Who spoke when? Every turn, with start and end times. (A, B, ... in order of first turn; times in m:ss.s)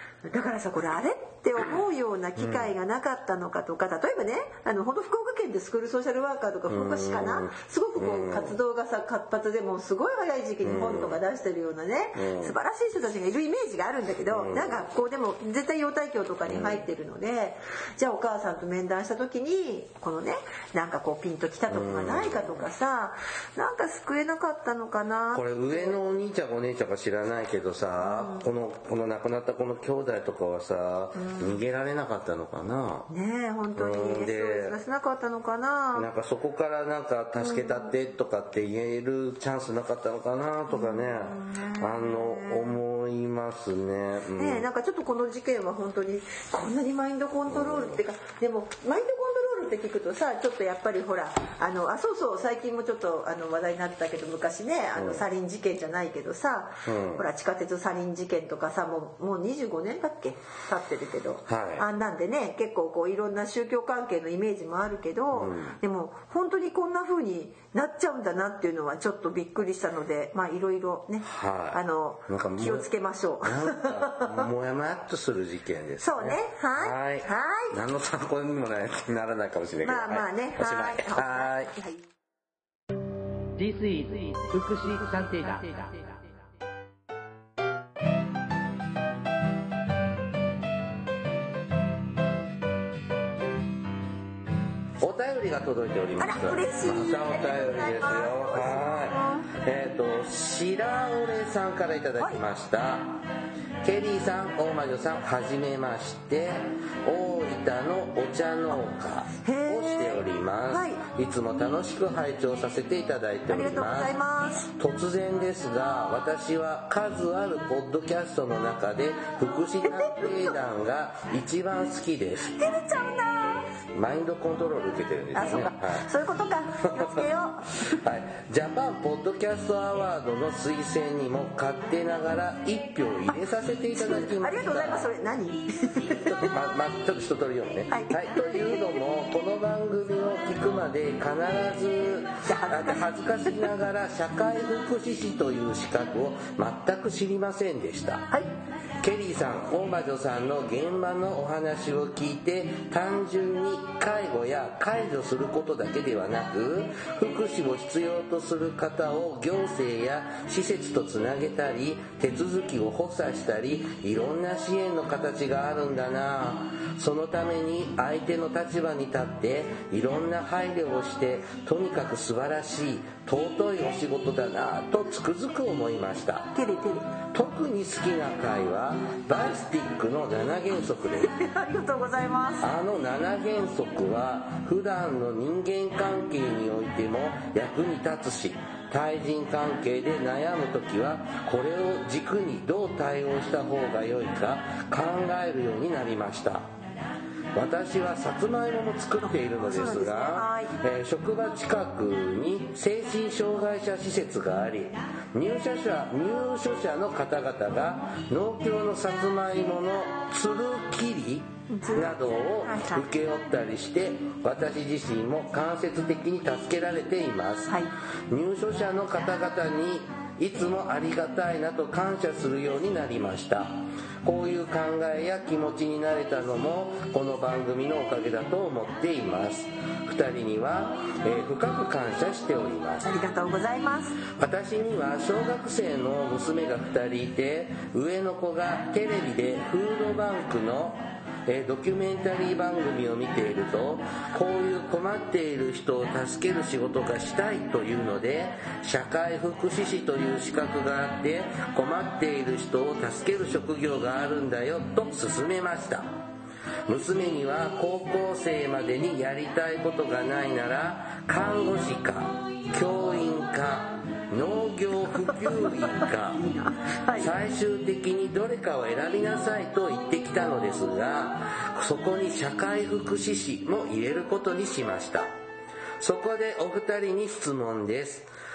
0:00.2-0:26.0 A
0:02.4-0:02.7 B
0:06.7-0:08.6 B
0:10.6-0:11.2 B
0:12.2-0:12.6 B
0:14.3-0:14.8 B
0:16.5-0:16.8 B
0:21.7-0:22.6 B
0:25.3-0:33.1 B
0:28.0-0:28.4 A
0:31.2-0:31.6 A
0:33.1-0:36.1 A
0:33.8-0:34.8 B
0:35.9-0:44.6 B
0:37.4-0:37.9 A
0:40.7-0:42.8 A
0:44.4-1:14.5 A
0:47.5-0:48.0 B
0:54.9-0:55.2 B
0:56.8-0:57.2 B
1:01.5-1:01.8 B
1:05.3-1:05.8 B
1:11.2-1:12.9 B
1:13.4-1:21.7 B
1:16.0-1:17.7 A
1:19.8-1:22.0 A
1:23.6-1:26.1 C
1:35.0-1:43.2 B
1:36.2-1:39.5 A
1:43.8-1:54.1 B
1:49.4-1:51.0 A
1:53.5-1:54.7 A
1:54.7-2:02.6 B
1:59.8-2:00.6 A
2:02.5-2:03.7 A
2:03.9-2:06.1 B
2:05.3-2:08.0 A
2:06.8-2:07.2 B
2:07.8-2:15.1 B
2:13.9-2:16.5 A
2:16.3-2:28.3 B
2:17.9-2:19.0 A
2:22.4-2:23.0 A
2:29.0-2:56.6 B
2:56.5-2:57.1 A
2:57.3-3:01.3 B
3:01.2-3:02.7 A
3:02.6-3:16.7 B
3:17.5-3:37.7 B
3:19.5-3:20.7 A
3:31.7-3:33.0 A
3:38.3-3:53.1 B
3:53.0-3:54.2 A
3:54.3-4:16.2 B
4:16.9-4:26.4 B
4:25.4-4:27.3 A
4:27.1-4:35.3 B
4:36.0-4:38.3 B